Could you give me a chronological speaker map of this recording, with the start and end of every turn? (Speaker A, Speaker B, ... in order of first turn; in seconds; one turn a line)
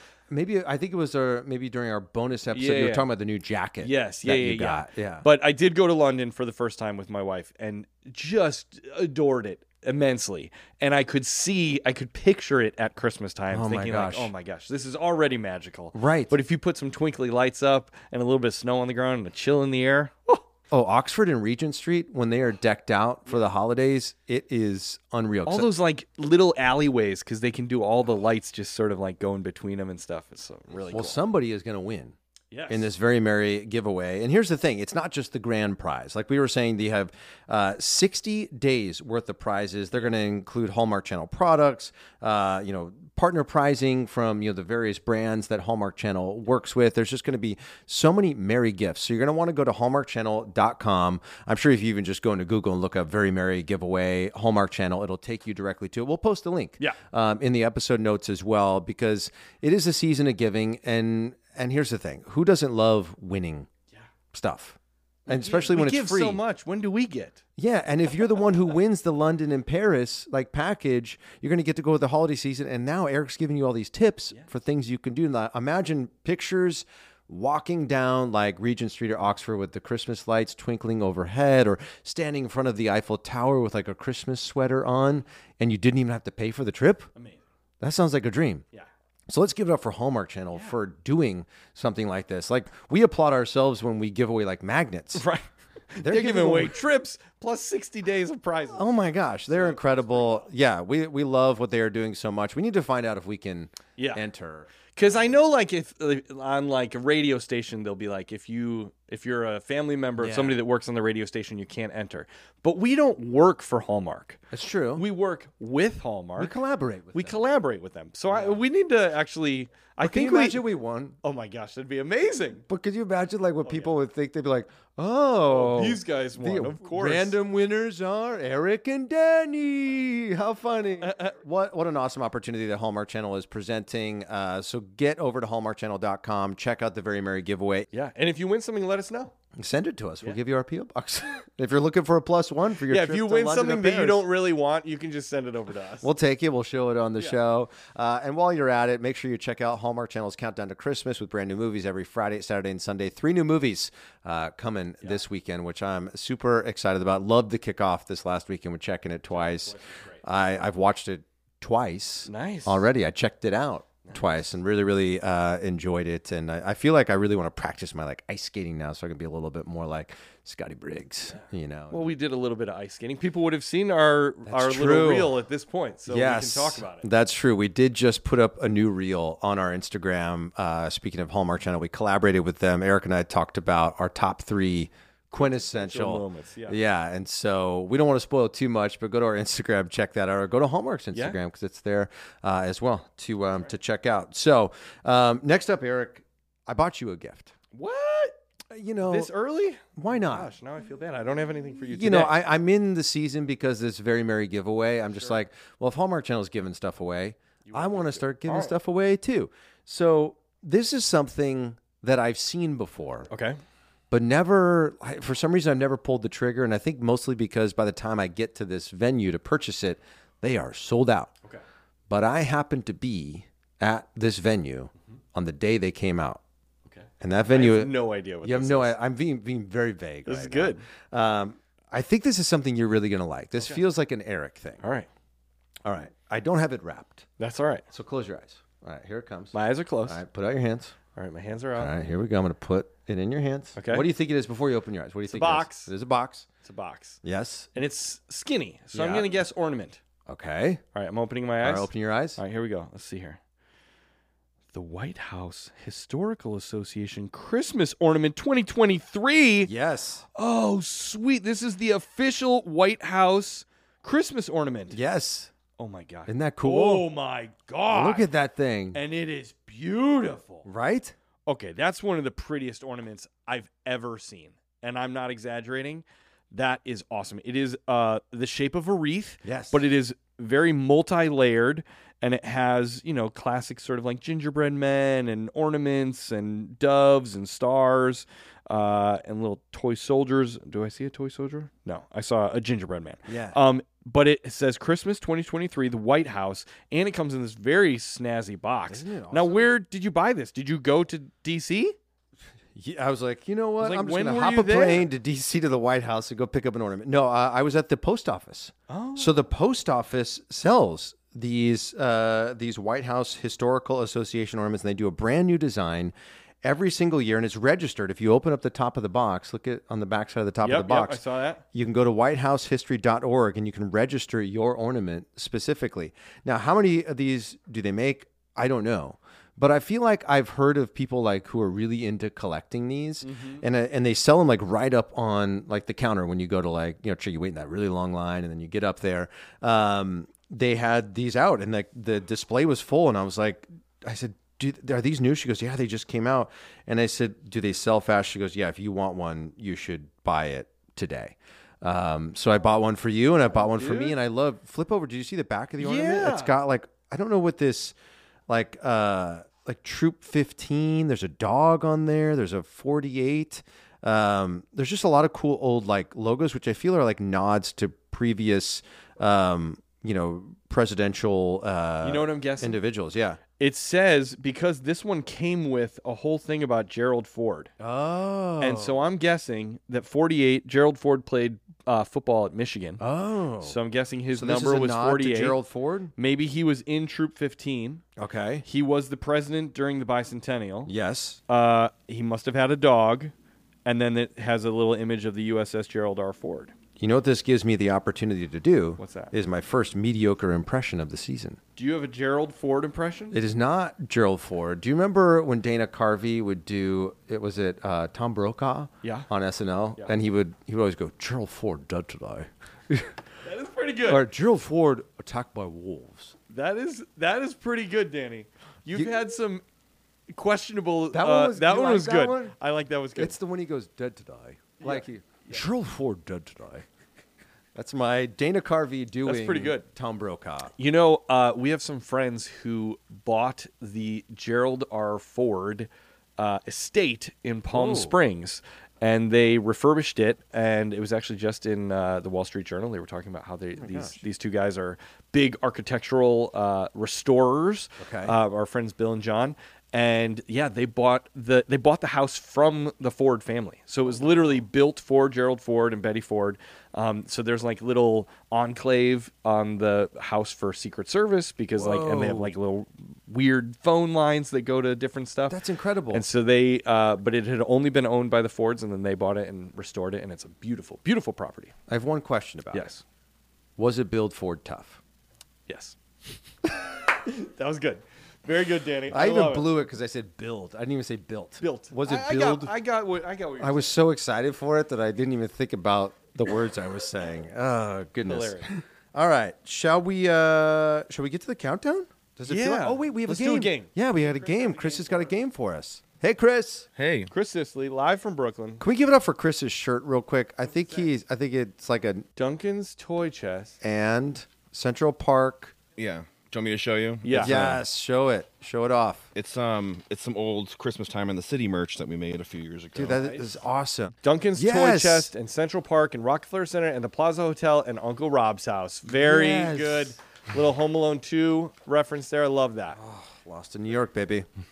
Speaker A: 0.3-5.3
Speaker B: 2.5-3.1
Speaker B: 3.8-20.4
Speaker A: 13.5-14.3
Speaker A: 15.9-16.4
Speaker A: 20.7-25.7
Speaker B: 25.4-31.2
Speaker A: 30.9-32.1
Speaker B: 32.5-32.9
Speaker A: 32.7-63.7
Speaker A: 64.3-66.4
Speaker B: 65.3-67.4
Speaker A: 67.6-87.1
Speaker B: 87.1-87.4
Speaker A: 87.8-88.6
Speaker A: 89.3-95.2
Speaker B: 95.1-98.8
Speaker A: 96.0-96.8
Speaker A: 98.7-104.8
Speaker B: 99.5-100.5
Speaker B: 104.0-104.2
Speaker B: 104.9-114.4
Speaker A: 110.2-110.6
Speaker A: 114.5-115.0
Speaker B: 114.9-116.5
Speaker A: 116.4-117.4
Speaker B: 117.1-120.6
Speaker A: 118.3-118.6
Speaker A: 120.0-121.2
Speaker B: 121.2-122.6
Speaker A: 122.7-137.9
Speaker B: 123.6-123.9
Speaker B: 125.5-127.4
Speaker B: 131.0-131.3
Speaker B: 137.9-139.3
Speaker A: 139.6-144.2
Speaker B: 142.9-146.1
Speaker A: 146.0-172.1
Speaker B: 159.3-160.2
Speaker B: 162.2-162.9
Speaker B: 164.0-164.4
Speaker B: 171.3-177.1
Speaker A: 174.4-175.3
Speaker A: 176.1-197.5
Speaker B: 185.3-186.8
Speaker B: 191.1-191.4
Speaker B: 197.7-198.4
Speaker A: 198.7-199.3
Speaker B: 199.0-202.4
Speaker A: 199.9-200.5
Speaker A: 201.9-213.3
Speaker B: 205.1-205.4
Speaker B: 207.6-208.7
Speaker B: 213.3-213.6
Speaker A: 214.1-221.3
Speaker A: 222.1-226.4
Speaker B: 226.8-228.9
Speaker A: 227.2-234.8
Speaker B: 230.2-230.8
Speaker B: 234.8-235.1
Speaker A: 235.8-237.3
Speaker B: 237.4-237.8
Speaker A: 237.9-240.9
Speaker B: 239.5-240.2
Speaker B: 241.1-241.9
Speaker A: 241.8-246.5
Speaker B: 243.8-244.1
Speaker B: 245.3-245.9
Speaker B: 246.6-247.2
Speaker A: 247.2-247.7
Speaker B: 247.7-250.0
Speaker A: 248.9-249.3
Speaker A: 250.3-250.8
Speaker B: 250.9-253.4
Speaker A: 251.6-252.4
Speaker B: 254.7-259.7
Speaker A: 259.6-260.2
Speaker B: 260.3-265.0
Speaker A: 264.9-265.5
Speaker B: 265.8-268.3
Speaker A: 266.3-267.1
Speaker A: 267.9-269.0
Speaker B: 268.9-270.6
Speaker A: 270.6-271.1
Speaker B: 271.5-301.9
Speaker A: 279.4-279.9
Speaker A: 293.3-293.6
Speaker A: 298.9-299.7
Speaker A: 302.7-321.2
Speaker B: 303.8-305.1
Speaker B: 308.9-309.4
Speaker B: 320.6-321.6
Speaker A: 321.7-357.9
Speaker B: 333.2-333.6
Speaker B: 353.5-354.1
Speaker B: 355.8-356.5
Speaker A: 358.5-373.4
Speaker B: 372.0-372.8
Speaker B: 373.6-377.7
Speaker A: 377.8-379.0
Speaker B: 378.6-383.0
Speaker A: 383.0-383.8
Speaker B: 383.6-385.6
Speaker A: 384.3-386.1
Speaker B: 386.2-388.0
Speaker A: 388.2-388.6
Speaker B: 388.6-390.9
Speaker A: 390.9-391.4
Speaker B: 391.5-393.3
Speaker B: 393.8-396.7
Speaker A: 397.0-401.6
Speaker B: 399.0-399.3
Speaker B: 401.8-403.4
Speaker A: 403.3-413.1
Speaker B: 409.0-409.3
Speaker B: 413.4-414.3
Speaker A: 414.1-416.3
Speaker B: 416.5-419.6
Speaker B: 420.3-423.3
Speaker A: 421.1-422.5
Speaker A: 423.1-426.9
Speaker B: 424.8-425.6
Speaker A: 427.7-430.7
Speaker B: 429.2-429.9
Speaker B: 430.7-465.6
Speaker A: 437.7-438.1
Speaker A: 443.8-444.2
Speaker A: 448.0-448.4
Speaker A: 461.8-462.5
Speaker A: 465.5-466.2
Speaker B: 466.1-471.7
Speaker A: 471.9-472.9
Speaker B: 472.7-473.0
Speaker A: 473.8-475.0
Speaker B: 475.7-475.9
Speaker B: 477.2-479.7
Speaker A: 479.1-482.7
Speaker B: 481.6-483.9
Speaker A: 483.6-496.9
Speaker B: 488.2-488.7
Speaker B: 492.5-495.3
Speaker C: 496.9-497.3
Speaker B: 497.3-498.8
Speaker A: 498.8-502.2
Speaker B: 500.6-501.1
Speaker B: 502.4-503.8
Speaker A: 503.8-505.7
Speaker C: 506.0-507.8
Speaker B: 507.2-507.7
Speaker A: 507.4-509.3
Speaker C: 509.3-513.2
Speaker A: 512.9-515.3
Speaker B: 513.0-513.5
Speaker B: 514.2-523.0
Speaker A: 519.1-520.2
Speaker A: 522.9-524.5